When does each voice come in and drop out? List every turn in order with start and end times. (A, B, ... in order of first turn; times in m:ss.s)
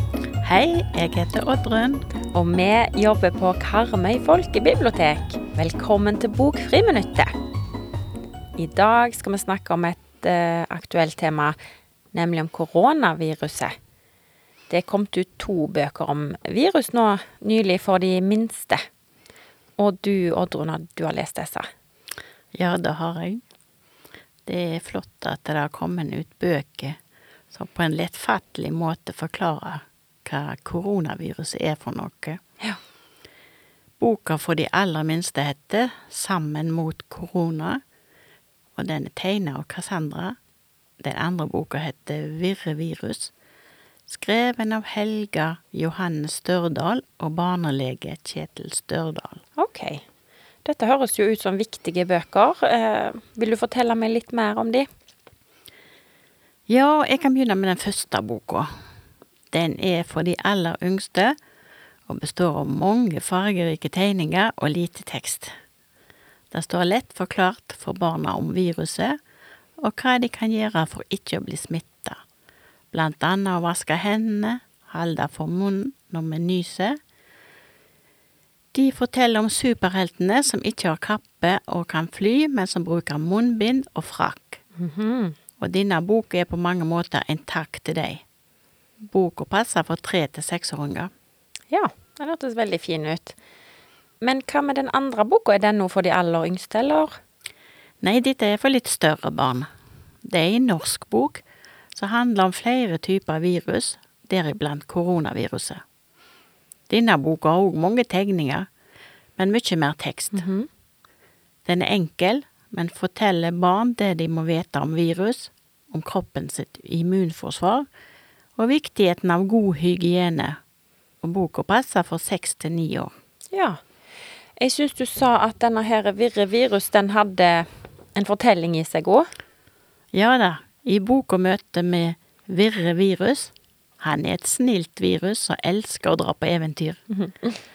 0:00.4-0:02.0 A
0:02.3-0:07.3 B
0:08.6-0:11.6 B
0:12.1-0:13.7 B
0:14.7-0:18.8 B
0:19.8-0:21.6 B
0:22.5-0:23.4 A
0:24.4-0:27.0 A
0:27.5-0:32.4 A
0:34.0-0:37.8 A
0:38.7-0:40.4 A
0:41.0-0:43.3 A
0:44.1-0:49.4 A
0:49.6-0:50.0 B
0:50.6-0:54.9 B
0:56.7-0:58.7 A
0:59.5-1:01.4 A
1:02.1-1:05.5 A
1:06.5-1:09.2 A
1:09.8-1:12.2 A
1:12.9-1:17.0 A
1:18.7-1:24.6 A
1:24.8-1:25.3 B
1:25.6-1:28.2 A
1:29.0-1:31.1 A
1:31.7-1:33.4 B
1:34.2-1:37.1 B
1:38.0-1:39.7 A
1:40.2-1:41.4 A
1:41.9-1:45.8 A
1:46.9-1:48.7 A
1:49.4-1:50.4 A
1:50.3-1:50.7 B
1:51.6-1:57.8 A
1:58.6-2:00.6 A
2:01.2-2:03.1 A
2:03.5-2:03.8 B
2:04.6-2:09.3 B
2:10.1-2:17.0 A
2:17.2-2:17.5 B